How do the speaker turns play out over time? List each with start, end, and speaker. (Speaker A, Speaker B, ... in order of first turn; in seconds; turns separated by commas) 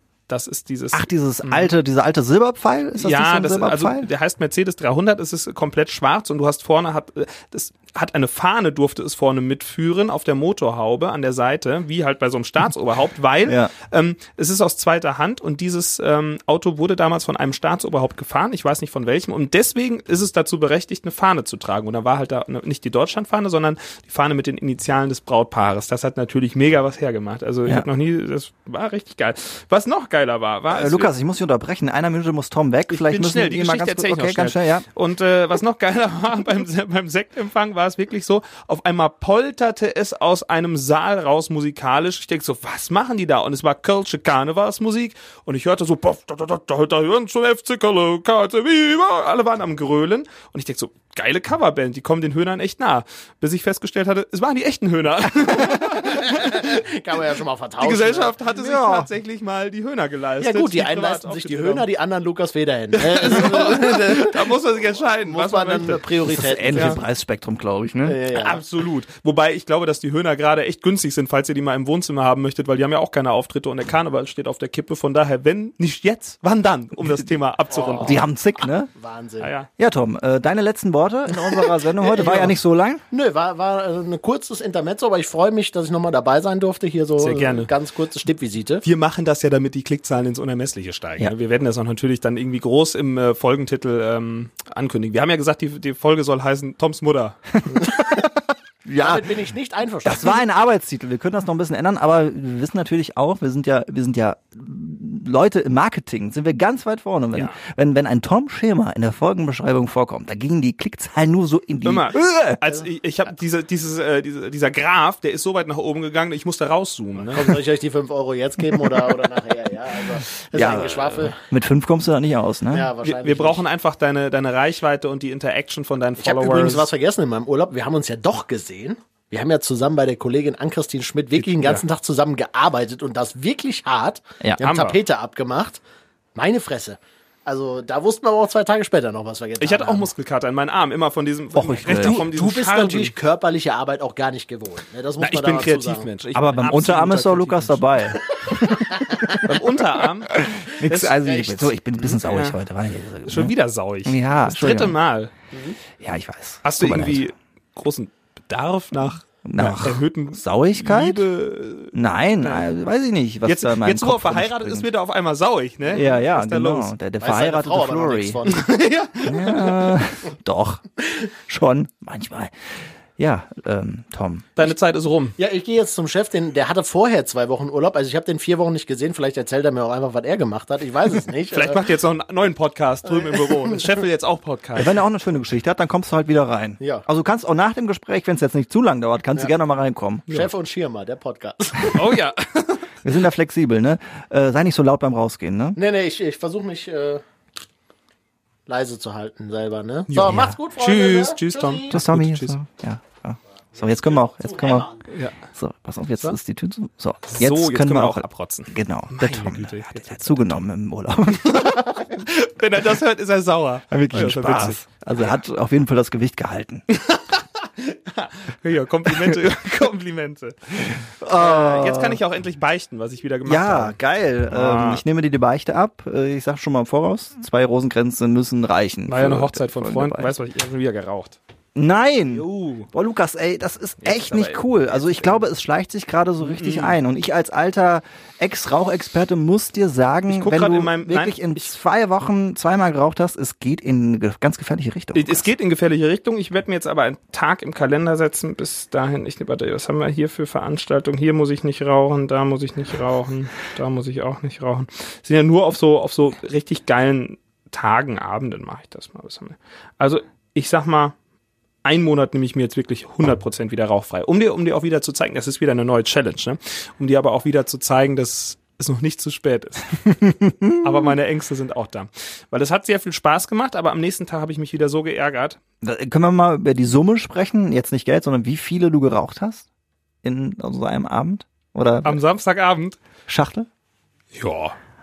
Speaker A: 0.3-1.7, Speaker B: 0.9-4.1, Speaker A: 3.0-31.1, Speaker B: 13.4-13.7, Speaker B: 30.7-34.9, Speaker A: 32.9-56.9, Speaker C: 55.5-58.4, Speaker A: 57.8-61.9, Speaker B: 58.5-59.1, Speaker C: 60.4-64.5, Speaker A: 63.0-67.0, Speaker C: 65.1-67.0, Speaker B: 66.3-68.2, Speaker C: 68.0-68.6, Speaker A: 68.3-78.2, Speaker C: 77.7-78.2, Speaker B: 78.0-78.9, Speaker C: 78.9-79.5, Speaker A: 79.4-79.7, Speaker B: 79.8-83.0, Speaker C: 82.0-82.5, Speaker C: 83.1-88.8, Speaker A: 87.2-87.7, Speaker A: 88.8-97.6, Speaker B: 97.7-98.3, Speaker B: 98.8-99.3, Speaker C: 99.0-100.4, Speaker B: 100.0-112.6, Speaker A: 111.8-117.6, Speaker C: 117.2-121.4, Speaker B: 120.5-122.9, Speaker A: 120.6-120.9, Speaker C: 122.7-123.6, Speaker A: 123.0-126.9, Speaker C: 126.2-135.8, Speaker A: 131.4-131.8, Speaker A: 134.6-135.0, Speaker C: 136.3-140.1, Speaker A: 139.6-143.1, Speaker B: 141.6-142.2, Speaker C: 141.9-146.1, Speaker A: 145.2-147.8, Speaker B: 146.3-149.3, Speaker C: 148.9-149.4, Speaker A: 149.3-150.3, Speaker B: 150.3-153.5, Speaker A: 150.8-151.1, Speaker C: 151.2-151.7, Speaker A: 152.0-152.6, Speaker A: 153.2-155.4, Speaker B: 154.1-155.0, Speaker B: 156.0-157.2, Speaker A: 156.6-162.7, Speaker B: 159.4-161.2, Speaker B: 161.9-164.9, Speaker A: 163.4-166.9, Speaker B: 165.9-168.4, Speaker C: 167.2-168.7, Speaker A: 168.5-170.0, Speaker B: 169.3-172.5, Speaker B: 173.2-174.5, Speaker A: 174.6-175.4, Speaker C: 175.4-181.9, Speaker A: 181.5-184.9, Speaker C: 183.1-183.9, Speaker B: 184.8-190.3, Speaker C: 186.8-187.1, Speaker C: 190.3-192.2, Speaker A: 191.9-192.9, Speaker B: 193.0-195.8, Speaker C: 195.8-197.2, Speaker C: 198.7-202.0, Speaker A: 200.1-202.6, Speaker B: 200.3-200.5, Speaker B: 201.9-204.9, Speaker A: 205.1-205.3, Speaker B: 205.5-212.0, Speaker A: 207.3-210.6, Speaker A: 211.5-214.8, Speaker B: 213.9-216.8, Speaker A: 216.9-224.0, Speaker B: 221.2-222.2, Speaker B: 223.5-230.3, Speaker A: 224.5-225.0, Speaker A: 229.1-231.4, Speaker B: 231.8-245.5, Speaker A: 232.3-232.9, Speaker A: 234.0-235.5, Speaker A: 236.4-237.0, Speaker A: 240.3-241.7, Speaker A: 245.1-261.1, Speaker A: 261.8-270.1, Speaker B: 270.3-271.0, Speaker A: 270.8-275.6, Speaker B: 275.8-279.7, Speaker B: 280.2-282.2, Speaker A: 282.0-283.0, Speaker B: 283.3-283.7, Speaker A: 284.3-284.8